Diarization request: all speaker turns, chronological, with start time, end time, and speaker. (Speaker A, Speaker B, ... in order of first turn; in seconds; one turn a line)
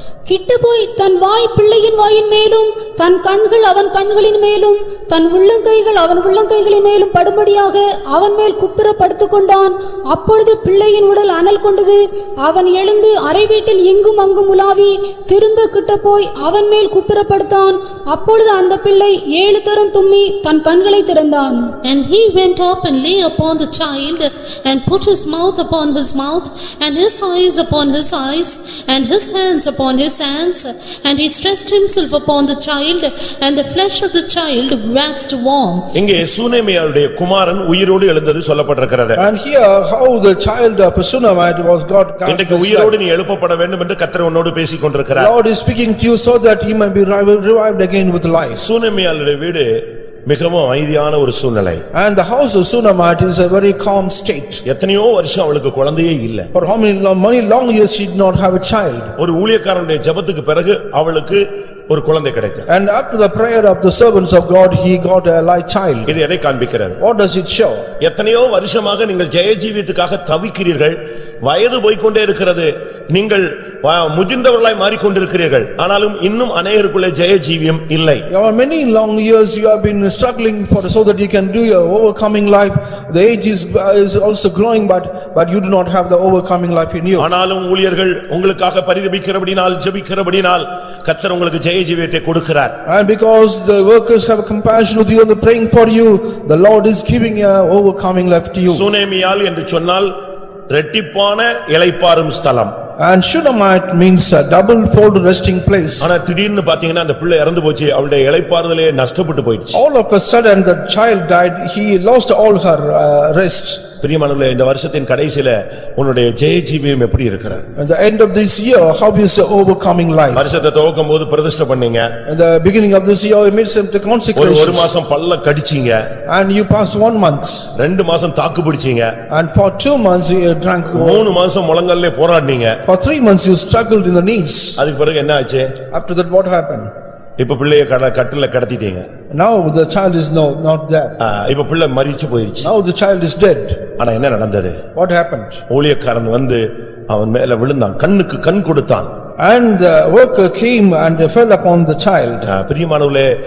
Speaker A: 0.3-21.7
Speaker B: 21.8-35.9
Speaker C: 35.9-39.2
Speaker D: 39.1-42.9
Speaker C: 42.2-45.3
Speaker D: 45.1-48.6
Speaker C: 48.6-49.7
Speaker C: 50.3-51.8
Speaker D: 51.9-54.6
Speaker C: 54.6-56.5
Speaker D: 56.5-59.1
Speaker C: 59.2-62.6
Speaker D: 62.7-66.2
Speaker C: 66.1-67.0
Speaker D: 67.0-67.8
Speaker C: 68.0-78.2
Speaker D: 78.3-87.3
Speaker C: 87.2-92.8
Speaker D: 92.8-98.8
Speaker C: 98.7-100.1
Speaker C: 100.7-102.7
Speaker D: 103.0-106.1
Speaker C: 106.0-109.8
Speaker D: 109.7-113.8
Speaker C: 114.0-117.6
Speaker D: 117.8-120.5
Speaker C: 120.3-122.1
Speaker D: 122.2-124.9
Speaker C: 124.3-126.1
Speaker D: 126.3-127.7
Speaker C: 127.7-129.1
Speaker D: 129.3-131.3
Speaker C: 130.9-132.8
Speaker D: 132.8-134.8
Speaker C: 134.8-135.7
Speaker D: 135.9-136.9
Speaker C: 137.4-139.0
Speaker D: 139.3-141.1
Speaker C: 141.2-142.7
Speaker D: 142.6-143.8
Speaker C: 144.0-144.8
Speaker D: 144.9-145.6
Speaker C: 145.7-149.1
Speaker D: 149.4-152.4
Speaker C: 152.4-153.3